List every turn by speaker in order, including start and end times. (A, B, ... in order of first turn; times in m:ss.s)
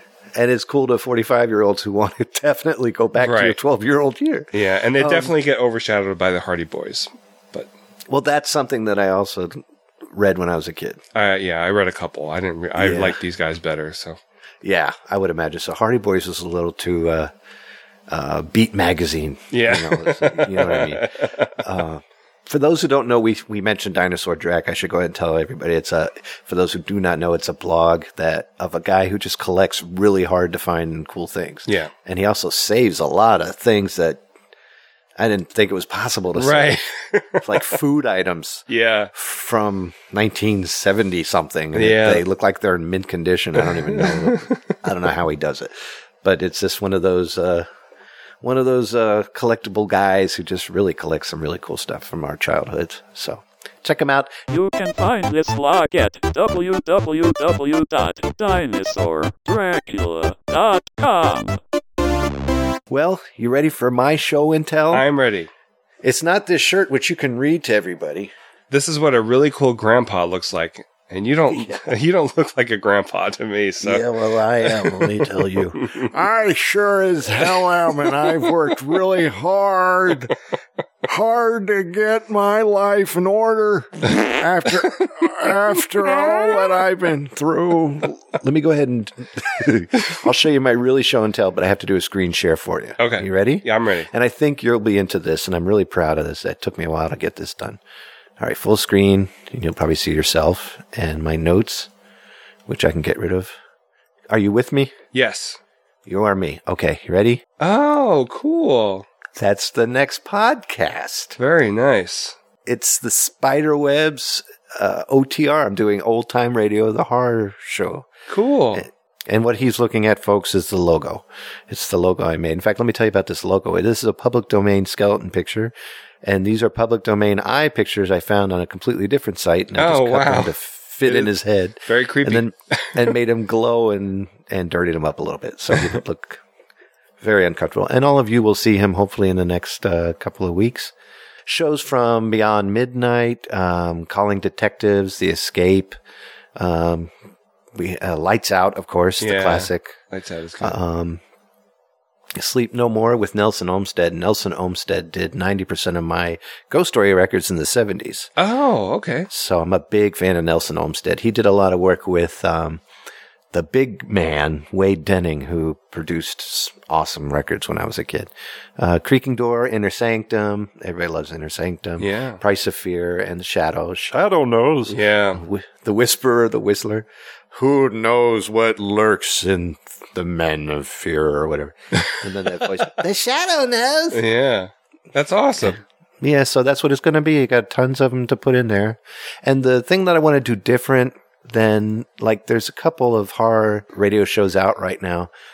0:00.4-0:05.3 A
0:03.2-0:03.6 B
0:04.5-0:07.7 B
0:08.1-0:11.0 A
0:11.2-0:14.2 B
0:12.8-0:13.2 A
0:14.6-0:17.3 A
0:18.1-0:34.2 A
0:19.5-0:21.5 B
0:31.7-0:31.9 B
0:35.2-0:36.8 A
0:36.4-0:37.6 B
0:37.4-0:47.7 A
0:38.7-0:39.1 B
0:41.7-0:42.2 B
0:44.0-0:44.6 B
0:48.4-0:54.4 A
0:54.5-1:01.6 C
1:02.9-1:05.1 A
1:04.9-1:05.5 B
1:06.0-1:08.3 A
1:08.7-1:14.1 B
1:11.5-1:11.8 A
1:13.8-1:20.3 A
1:14.6-1:16.1 B
1:21.0-1:37.8 A
1:33.0-1:34.1 B
1:38.4-1:41.9 A
1:42.7-1:43.6 A
1:44.3-1:44.9 A
1:45.1-1:45.6 B
1:46.1-1:47.4 A
1:47.6-1:49.1 B
1:49.4-1:51.4 A
1:51.4-1:52.4 B
1:52.7-1:58.1 A
1:58.3-1:58.9 B
1:58.7-2:16.4 A
2:09.8-2:11.3 B
2:11.9-2:13.2 B
2:17.2-2:20.9 A
2:21.5-2:26.0 A
2:26.6-2:27.1 A
2:27.7-2:30.0 A
2:29.2-2:30.8 B
2:30.6-2:31.2 A
2:32.3-2:38.3 A
2:38.4-2:39.3 B
2:39.3-2:42.8 A
2:43.5-3:04.2 A
2:52.0-2:52.4 B
2:54.9-2:55.4 B
3:04.1-3:05.8 B
3:06.2-3:15.3 A